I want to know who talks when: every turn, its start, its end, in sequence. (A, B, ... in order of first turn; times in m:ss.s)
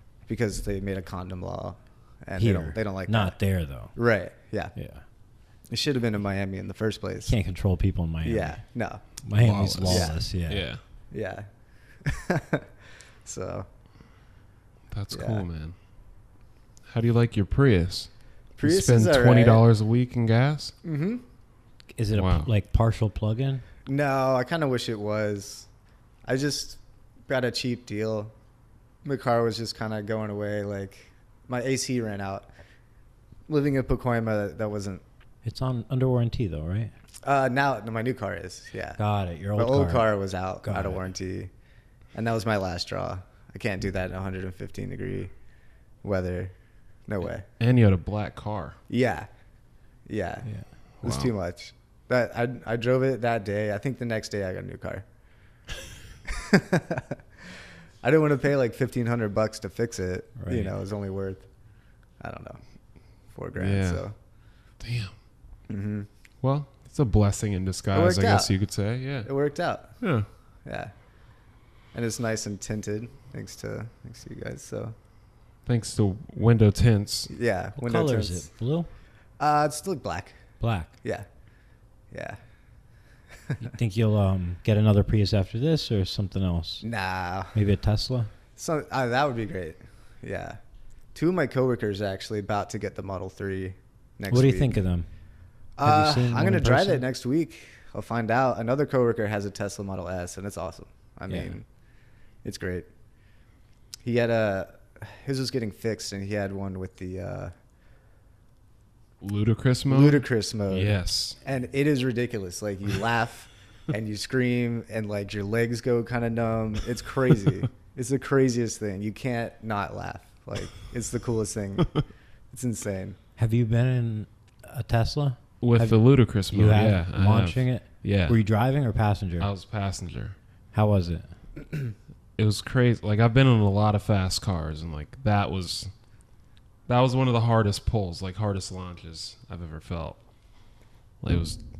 0:00.3-0:03.4 A
0:02.4-0:03.9 B
0:03.9-0:04.7 A
0:04.7-0:05.0 B
0:05.7-0:07.3 A
0:07.2-0:08.6 B
0:08.2-0:09.0 A
0:09.2-0:10.6 B
0:09.4-0:10.8 C
0:09.8-0:10.2 A
0:11.1-0:11.5 A
0:12.0-0:12.7 A
0:13.2-0:13.7 A
0:14.9-0:15.7 C
0:15.1-0:15.4 A
0:16.9-0:18.1 C
0:18.6-0:19.6 A
0:18.6-0:20.7 C
0:20.8-0:21.2 A
0:22.0-0:23.6 B
0:22.1-0:22.5 C
0:23.8-0:25.7 A
0:26.2-0:28.3 A
0:29.0-0:32.5 A
0:33.5-0:35.0 A
0:35.4-0:36.9 B
0:37.2-0:39.0 A
0:39.0-0:40.1 B
0:39.6-0:41.5 A
0:40.6-0:41.0 B
0:42.1-0:45.3 A
0:46.0-0:46.5 A
0:47.1-0:47.4 A
0:47.6-0:48.8 C
0:48.9-0:49.3 A
0:50.0-0:50.5 A
0:51.0-0:55.0 A
0:51.0-0:51.3 C
0:56.3-0:57.2 A
0:58.0-1:01.4 A
1:00.4-1:00.7 B
1:02.2-1:02.6 A
1:03.3-1:04.1 A
1:03.6-1:04.0 C
1:04.8-1:05.1 C
1:05.7-1:06.1 A
1:06.4-1:09.3 C
1:07.9-1:08.5 A
1:09.2-1:09.9 A
1:10.0-1:10.3 C
1:10.6-1:10.9 A
1:11.9-1:14.9 A
1:15.6-1:17.3 C
1:17.3-1:18.5 A
1:17.8-1:18.9 B
1:19.4-1:20.4 A
1:20.6-1:20.9 B
1:22.1-1:22.4 A
1:23.6-1:26.8 B
1:26.8-1:27.6 A
1:27.5-1:28.3 B
1:28.6-1:30.6 A
1:31.1-1:34.8 A
1:34.3-1:35.1 B
1:35.8-1:41.6 A
1:35.8-1:37.0 B
1:41.3-1:41.5 B
1:42.4-1:42.9 A
1:44.0-1:47.5 A
1:49.2-1:51.4 C
1:49.9-2:03.2 A
2:03.4-2:09.5 B
2:05.6-2:08.4 C
2:09.4-2:10.4 C
2:10.7-2:11.3 B
2:12.4-2:15.9 C
2:16.9-2:20.2 C
2:21.2-2:21.6 C